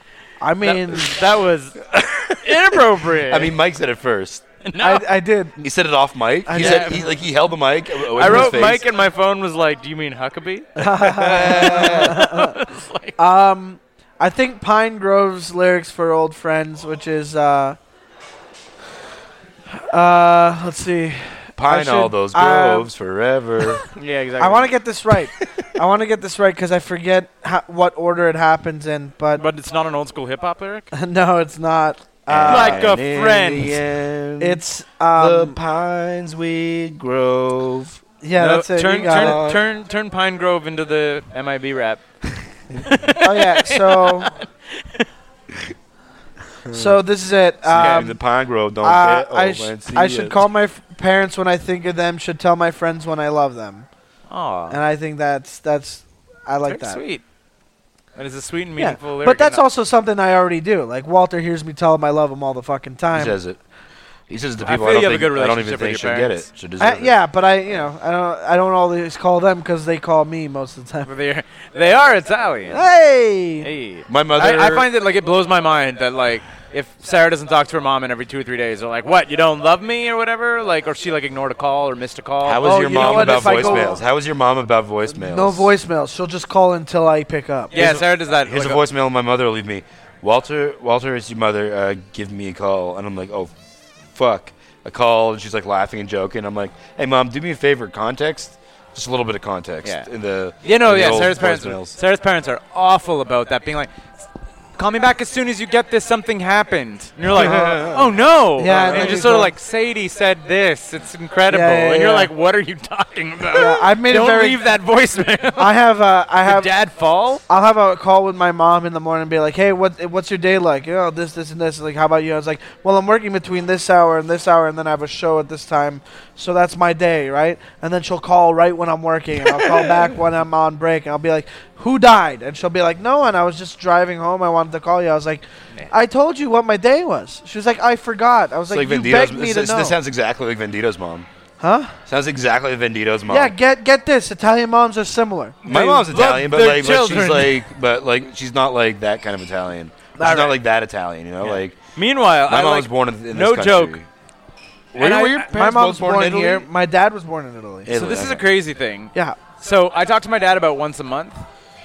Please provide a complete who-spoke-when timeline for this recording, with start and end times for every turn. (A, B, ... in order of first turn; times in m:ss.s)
0:00.4-0:01.2 A
0:00.6-0:01.8 B
0:01.9-0:04.4 C
0:02.4-0:03.5 B
0:04.6-0:05.1 B
0:04.8-0:05.6 A
0:05.6-0:08.8 C
0:06.4-0:07.1 A
0:06.5-0:07.1 B
0:08.0-0:13.2 B
0:10.8-0:12.6 A
0:11.1-0:12.2 C
0:13.2-0:17.8 A
0:19.8-0:22.9 A
0:21.6-0:23.8 C
0:23.9-0:24.7 B
0:24.4-0:29.4 A
0:29.4-0:30.9 B
0:30.9-0:32.8 A
0:32.3-0:34.6 C
0:32.5-0:33.8 B
0:34.4-0:35.6 A
0:35.1-0:38.0 C
0:38.2-0:39.6 A
0:38.4-0:42.0 B
0:39.1-0:39.6 C
0:42.7-0:45.1 B
0:43.2-0:44.4 A
0:46.7-0:47.0 C
0:46.7-0:48.2 A
0:47.6-0:50.4 C
0:47.8-0:48.1 B
0:48.8-0:53.8 A
0:54.3-0:54.8 B
0:54.7-0:57.0 A
0:56.7-0:57.2 B
0:58.2-0:59.6 B
0:58.8-1:03.4 A
1:03.1-1:03.6 C
1:04.3-1:07.2 C
1:04.6-1:06.4 B
1:06.8-1:11.1 A
1:11.0-1:12.8 B
1:12.7-1:13.7 A
1:13.6-1:23.9 B
1:14.1-1:14.9 C
1:22.4-1:25.7 C
1:22.6-1:24.0 A
1:25.1-1:27.7 A
1:27.7-1:28.8 B
1:27.7-1:33.5 C
1:34.1-1:42.0 C
1:40.6-1:44.2 B
1:44.8-1:55.8 B
1:47.3-1:48.1 C
1:47.3-1:47.9 A
1:48.6-1:49.5 A
1:51.5-1:52.3 A
1:53.5-1:54.6 A
1:55.6-1:56.7 A
1:56.4-1:57.4 B
1:57.5-2:20.0 A
2:09.5-2:10.1 C
2:18.7-2:21.3 C
2:21.6-2:22.0 A
2:22.0-2:23.5 C
2:23.3-2:25.6 A
2:25.6-2:27.6 B
2:25.6-2:31.8 C
2:30.2-2:30.5 A
2:31.4-2:34.0 B
2:32.5-2:34.1 C
2:34.9-2:36.7 C
2:35.0-2:37.9 A
2:37.8-2:38.4 C
2:37.9-2:41.4 B